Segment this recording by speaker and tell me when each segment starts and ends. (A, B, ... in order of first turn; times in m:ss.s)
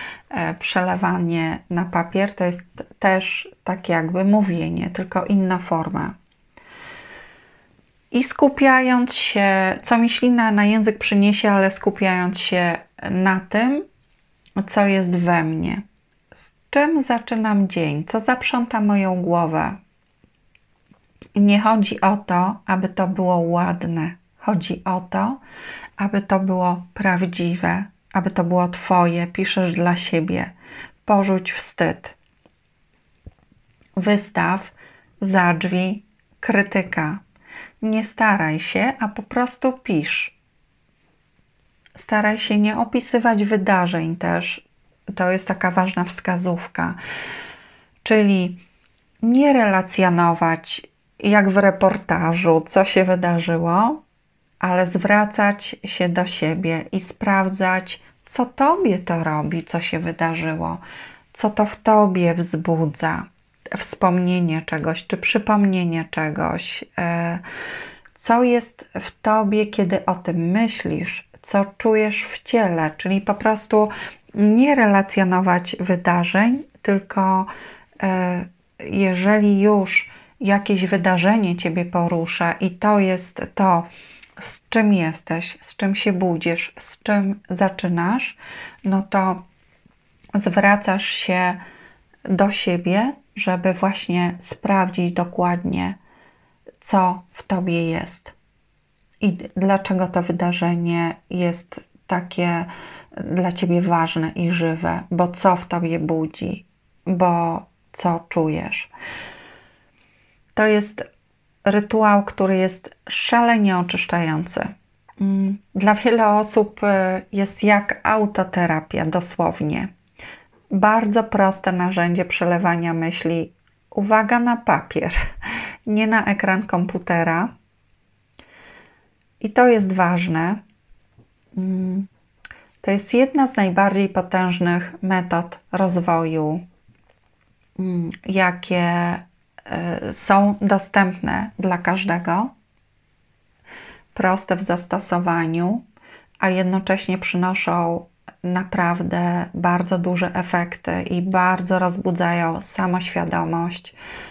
0:00.3-0:06.2 A
0:08.1-0:13.8 A
0:14.6-0:19.8 A
0:21.4-0:25.4 A
0:26.0-0:30.5 A
0:31.1-0:32.2 A
0:34.0-0:37.2 A
0:37.8-0:40.4 A
0:42.0-0:47.0 A
0:48.0-0:48.6 A
0:49.2-0:54.0 A
0:54.6-1:00.8 A
1:01.3-1:07.4 A
1:08.2-1:17.5 A
1:18.0-1:23.9 A
1:24.4-1:29.4 A
1:30.4-1:31.6 A
1:32.3-1:36.0 A
1:36.8-1:38.3 A
1:39.2-1:48.9 A
1:50.6-1:51.0 A
1:51.6-1:59.9 A
2:00.7-2:05.2 A
2:05.9-2:07.5 A
2:09.4-2:10.6 A
2:11.6-2:12.1 A
2:12.8-2:16.6 A
2:17.8-2:22.5 A
2:24.2-2:25.8 A
2:26.4-2:34.0 A